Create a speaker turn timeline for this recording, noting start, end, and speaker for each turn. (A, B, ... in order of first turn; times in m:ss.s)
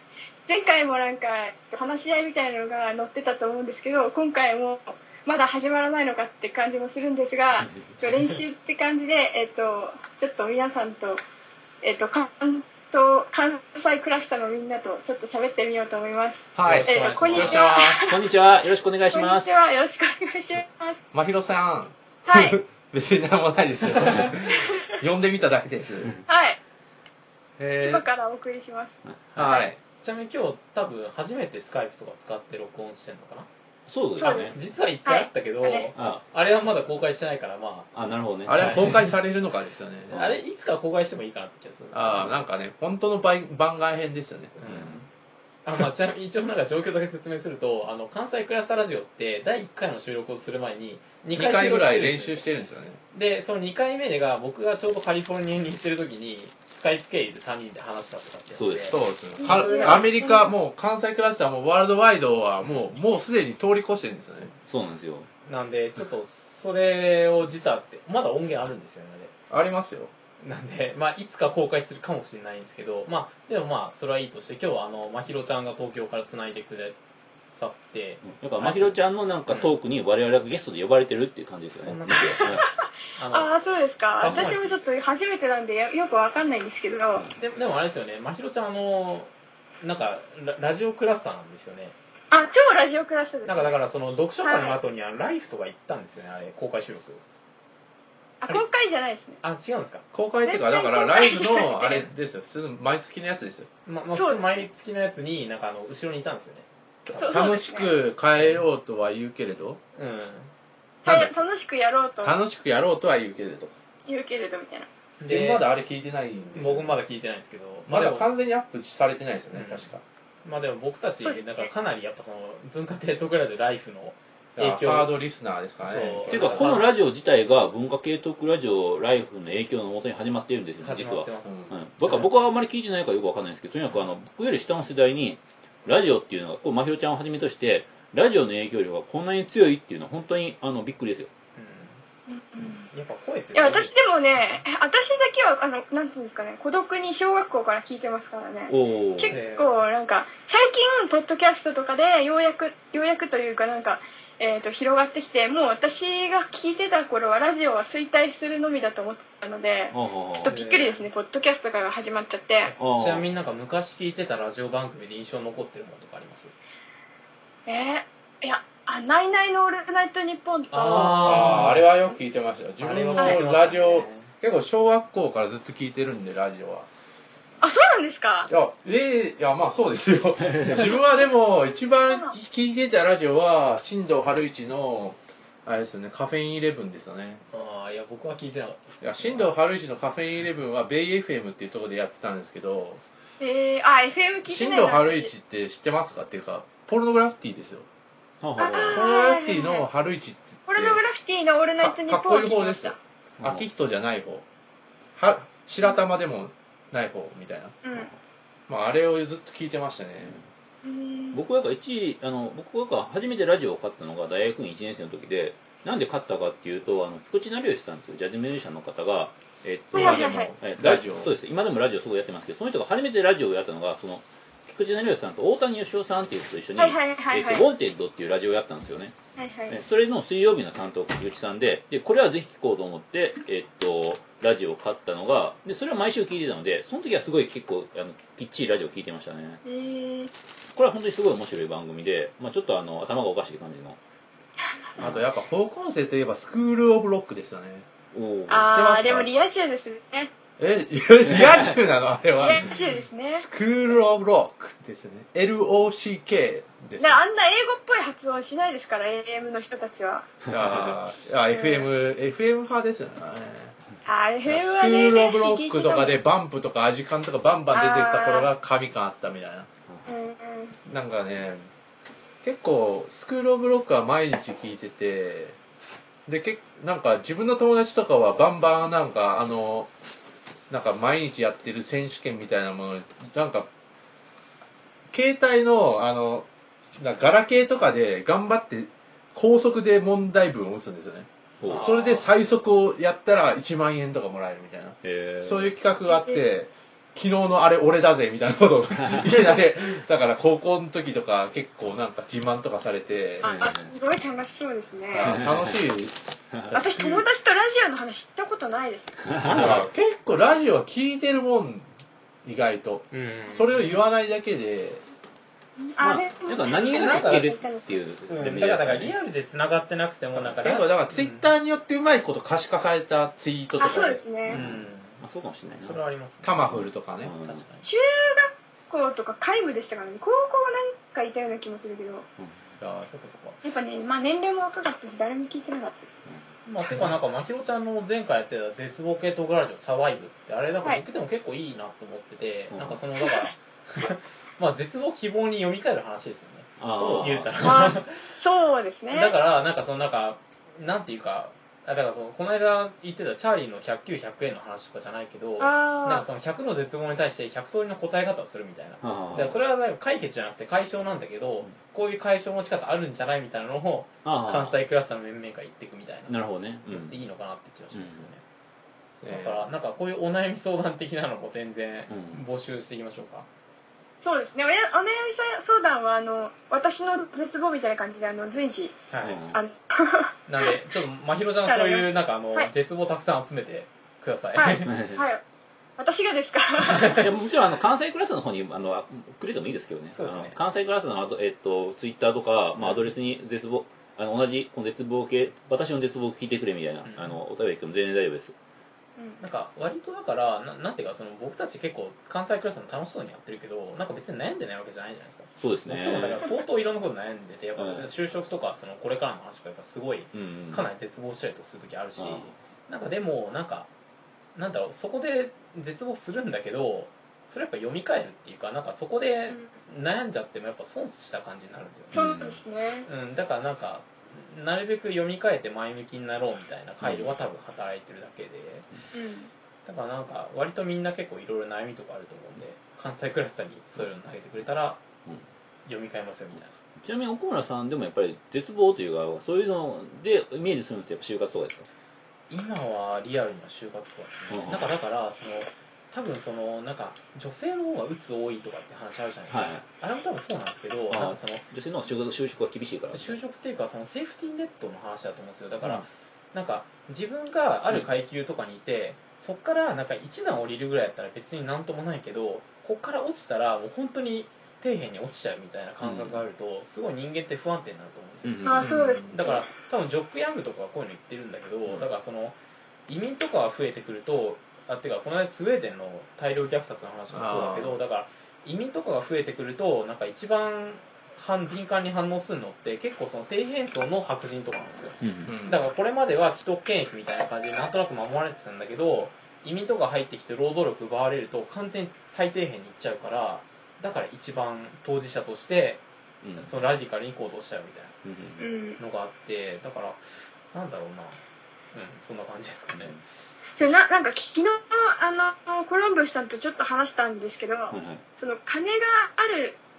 0:00.5-0:11.2 A
0:11.8-0:18.2 A
0:16.6-0:18.1 B
0:16.6-0:18.1 C
0:18.0-0:19.6 D
0:19.1-0:21.0 A
0:21.1-0:26.1 B
0:22.3-0:22.6 A
0:26.3-0:26.6 A
0:27.6-0:28.1 B
0:27.8-0:29.7 A
0:29.4-0:29.8 B
0:29.4-0:33.5 C
0:33.9-0:34.6 D
0:34.2-0:37.9 C
0:34.2-0:35.9 A
0:36.0-0:36.2 D
0:37.9-0:38.9 D
0:38.5-0:40.3 B
0:38.5-0:38.9 C
0:40.1-0:42.4 C
0:40.1-0:40.4 D
0:41.9-0:45.0 B
0:44.6-0:45.1 C
0:45.6-0:52.4 C
0:51.4-0:53.0 B
0:53.1-1:00.0 C
0:58.5-0:58.9 D
0:58.9-1:04.5 B
0:59.4-1:00.5 A
1:04.7-1:05.3 D
1:05.5-1:09.3 C
1:09.5-1:10.1 B
1:10.4-1:19.8 C
1:18.2-1:22.6 D
1:21.8-1:23.6 C
1:23.3-1:27.2 A
1:24.2-1:24.9 C
1:27.4-1:32.0 C
1:32.3-1:34.8 A
1:33.5-1:37.2 C
1:38.4-1:39.4 A
1:39.4-1:40.0 C
1:40.1-1:43.7 B
1:40.4-1:42.1 A
1:43.9-1:47.5 C
1:44.2-1:44.6 A
1:47.1-1:49.8 B
1:47.2-1:47.9 A
1:48.4-1:48.6 C
1:50.0-1:50.5 C
1:51.0-1:52.4 A
1:51.0-1:51.3 B
1:52.2-1:53.8 B
1:54.1-1:54.9 A
1:55.2-1:55.6 C
1:55.3-1:56.9 B
1:56.6-1:58.3 C
1:57.9-2:00.0 B
1:59.5-2:05.1 C
2:01.2-2:01.7 A
2:04.6-2:06.7 B
2:05.8-2:06.9 C
2:06.3-2:21.3 D
2:10.8-2:12.5 C
2:11.4-2:11.8 B
2:21.6-2:22.0 C
2:22.3-2:22.9 A
2:22.9-2:24.0 C
2:23.5-2:42.7 A
2:28.7-2:29.4 D
2:29.3-2:29.8 C
2:39.9-2:40.6 D
2:40.4-2:41.0 C
2:42.6-2:46.5 C
2:42.8-2:43.3 D
2:47.7-2:51.5 A
2:50.7-2:51.9 C
2:51.1-2:56.9 B
2:52.8-2:54.3 C
2:57.6-2:58.5 A
2:58.5-3:07.4 B
3:00.5-3:00.8 D
3:00.7-3:02.3 A
3:07.5-3:09.5 C
3:09.0-3:13.0 B
3:13.4-3:15.3 A
3:14.5-3:17.9 B
3:18.4-3:19.1 D
3:18.6-3:19.9 A
3:18.7-3:21.0 B
3:20.7-3:23.0 A
3:21.8-3:24.4 B
3:23.4-3:23.7 D
3:25.2-3:27.8 B
3:27.8-3:28.1 A
3:28.7-3:30.4 B
3:30.8-3:31.4 A
3:31.3-3:49.1 D
3:39.9-3:40.5 A
3:39.9-3:41.3 B
3:46.8-3:47.7 A
3:49.4-3:49.8 A
3:49.7-3:59.6 D
3:59.6-4:00.3 A
4:00.8-4:04.0 D
4:05.0-4:05.2 D
4:05.0-4:07.9 B
4:08.1-4:08.7 D
4:08.5-4:09.5 B
4:08.5-4:10.3 A
4:10.6-4:17.2 B
4:12.4-4:13.4 A
4:17.0-4:20.3 A
4:20.5-4:23.7 B
4:20.6-4:21.0 D
4:21.5-4:21.9 A
4:24.0-4:26.1 A
4:24.5-4:29.7 B
4:27.7-4:28.5 A
4:29.9-4:30.2 D
4:30.1-4:30.8 A
4:30.9-4:31.7 B
4:32.4-4:35.6 B
4:36.3-4:39.9 B
4:40.7-4:43.7 B
4:45.1-5:03.5 B
4:51.6-4:51.9 D
4:51.6-4:52.3 C
4:55.0-4:55.7 D
4:56.1-4:56.4 A
5:03.4-5:05.5 A
5:03.4-5:03.9 D
5:05.1-5:06.2 B
5:05.2-5:05.8 D
5:06.7-5:07.3 B
5:06.7-5:09.2 A
5:09.2-5:09.9 D
5:09.4-5:09.9 C
5:09.5-5:11.9 B
5:12.4-5:15.0 B
5:13.1-5:14.0 C
5:16.0-5:18.0 A
5:16.0-5:19.1 D
5:16.9-5:17.5 C
5:18.3-5:21.5 C
5:20.6-5:24.6 B
5:23.8-5:24.6 A
5:24.5-5:26.0 D
5:24.5-5:25.2 C
5:25.8-5:26.6 C
5:26.4-5:27.3 B
5:26.7-5:27.6 D
5:27.4-5:27.9 C
5:27.8-5:32.3 A
5:32.8-5:33.1 B
5:33.0-5:33.6 C
5:33.6-5:36.1 A
5:36.3-5:37.2 D
5:36.7-5:48.4 C
5:42.7-5:43.0 D
5:46.8-5:47.5 D
5:47.0-5:47.5 B
5:47.6-5:49.3 A
5:49.1-6:06.4 C
5:55.6-5:56.2 A
5:59.0-5:59.6 D
6:04.2-6:04.8 D
6:06.3-6:07.2 D
6:06.9-6:08.4 C
6:07.9-6:08.3 D
6:09.2-6:09.6 B
6:09.3-6:13.5 C
6:12.1-6:12.4 D
6:14.2-6:19.0 A
6:19.1-6:19.4 C
6:19.2-6:19.6 D
6:19.5-6:20.7 A
6:20.5-6:25.0 C
6:21.6-6:22.7 A
6:24.6-6:25.4 A
6:24.8-6:25.2 D
6:26.0-6:27.1 A
6:26.9-6:27.2 C
6:27.1-6:38.6 D
6:30.1-6:30.6 C
6:32.8-6:33.1 C
6:37.0-6:37.4 C
6:39.2-6:39.5 A
6:39.4-6:53.9 C
6:45.6-6:46.5 D
6:47.8-6:48.1 D
6:50.3-6:50.9 D
6:52.2-6:52.6 D
6:54.6-7:02.2 C
7:02.1-7:02.6 D
7:02.1-7:03.1 A
7:03.0-7:08.9 C
7:07.0-7:07.3 D
7:09.1-7:09.5 A
7:09.8-7:15.0 C
7:15.9-7:16.7 C
7:17.0-7:21.9 D
7:22.5-7:31.6 C
7:24.5-7:24.9 D
7:29.5-7:29.8 D
7:31.1-7:33.4 D
7:33.1-8:16.0 C
7:35.8-7:36.1 D
7:46.0-7:46.4 D
7:48.4-7:48.9 D
7:48.6-7:49.7 A
7:48.8-7:49.4 B
7:57.3-7:58.0 B
8:05.2-8:05.6 D
8:05.5-8:05.8 B
8:16.4-8:16.8 D
8:16.6-8:18.1 C
8:18.2-8:18.7 D
8:18.6-8:19.0 A
8:19.0-8:21.4 C
8:21.9-8:23.2 C
8:23.8-8:29.8 A
8:27.9-8:28.2 D